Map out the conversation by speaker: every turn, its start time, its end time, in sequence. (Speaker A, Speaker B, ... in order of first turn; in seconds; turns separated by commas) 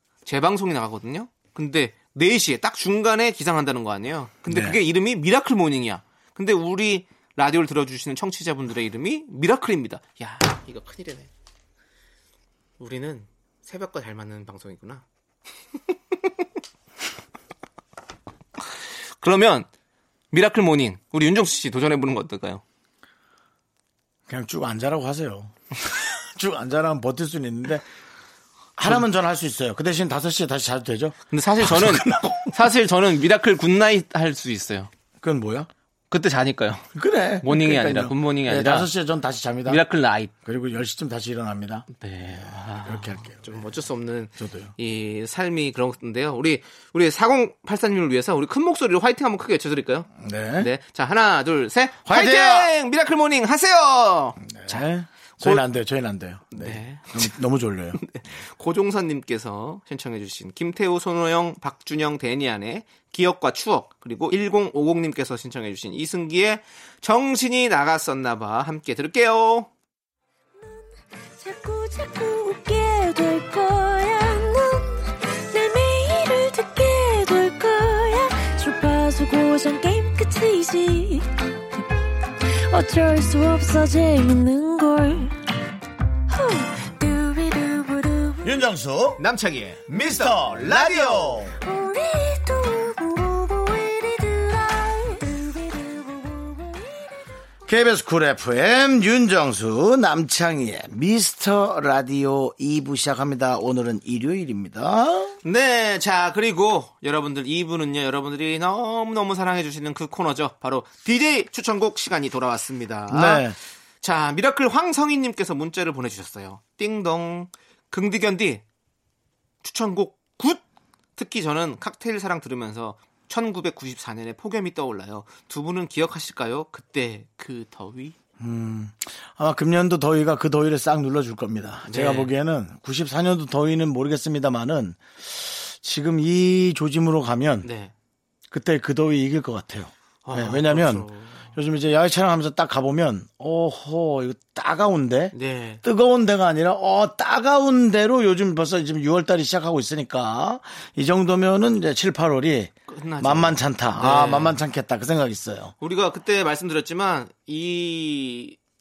Speaker A: 0.2-11.3, Speaker B: 4.5-4.8, Speaker A: 12.8-15.0, Speaker A: 19.2-19.7, Speaker A: 20.3-22.6, Speaker B: 24.3-27.8, Speaker B: 28.8-32.5, Speaker A: 31.3-34.9, Speaker B: 35.2-35.7, Speaker A: 36.1-36.9, Speaker B: 36.9-39.8, Speaker A: 37.4-38.9, Speaker A: 39.6-40.3, Speaker B: 40.4-43.7, Speaker A: 41.9-54.9, Speaker B: 44.4-44.7, Speaker B: 50.2-50.7, Speaker B: 52.0-52.7, Speaker B: 54.4-58.0, Speaker A: 55.4-55.6, Speaker A: 56.5-57.4, Speaker A: 57.9-69.7, Speaker C: 70.6-81.3, Speaker C: 82.4-85.3, Speaker C: 86.3-88.5, Speaker B: 88.4-89.2, Speaker A: 89.2-91.4, Speaker B: 89.9-91.5, Speaker C: 91.6-97.0, Speaker B: 97.7-105.3, Speaker A: 105.4-113.5, Speaker B: 113.1-113.6, Speaker A: 114.0-118.6, Speaker A: 119.6-120.6, Speaker A: 121.2-128.2, Speaker B: 128.4-137.7, Speaker A: 131.9-132.3, Speaker A: 137.6-137.9, Speaker B: 138.5-155.7, Speaker A: 140.2-141.5, Speaker A: 145.3-145.8, Speaker A: 152.9-154.6, Speaker A: 155.8-158.6